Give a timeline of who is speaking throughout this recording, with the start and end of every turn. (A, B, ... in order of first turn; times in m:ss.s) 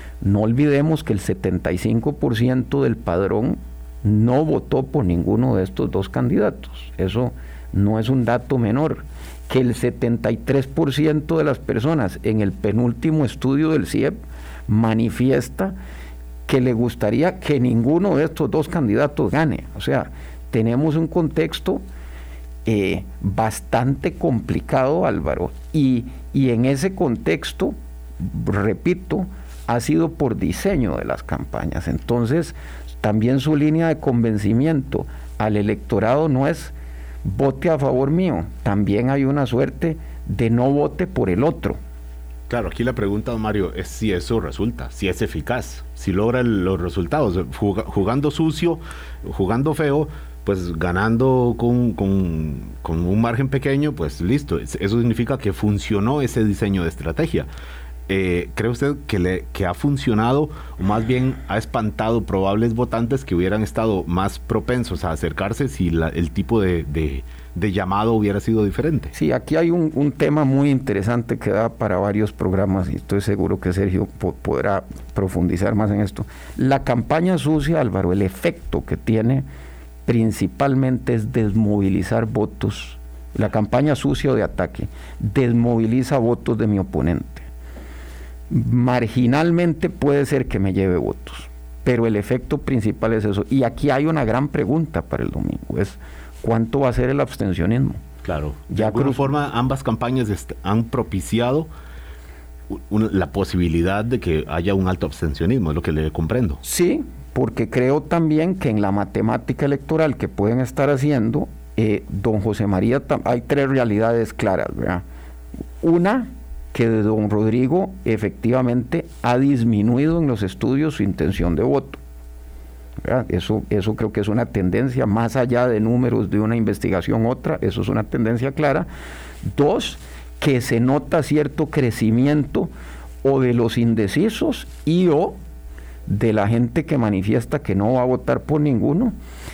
0:00.2-0:14.2 A
0:14.7-0:15.8 A
0:16.5-0:21.8 A
0:22.6-0:41.8 A
0:42.5-0:57.5 B
0:58.1-1:09.1 B
1:09.1-1:19.4 A
1:20.0-1:27.5 A
1:28.5-1:38.0 A
1:38.2-1:41.7 B
1:38.7-1:39.3 A
1:42.7-1:46.6 B
1:46.6-1:55.0 A
1:55.8-2:02.0 A
2:03.0-2:08.9 A
2:09.4-2:12.7 A
2:13.2-2:15.4 A
2:16.1-2:19.2 A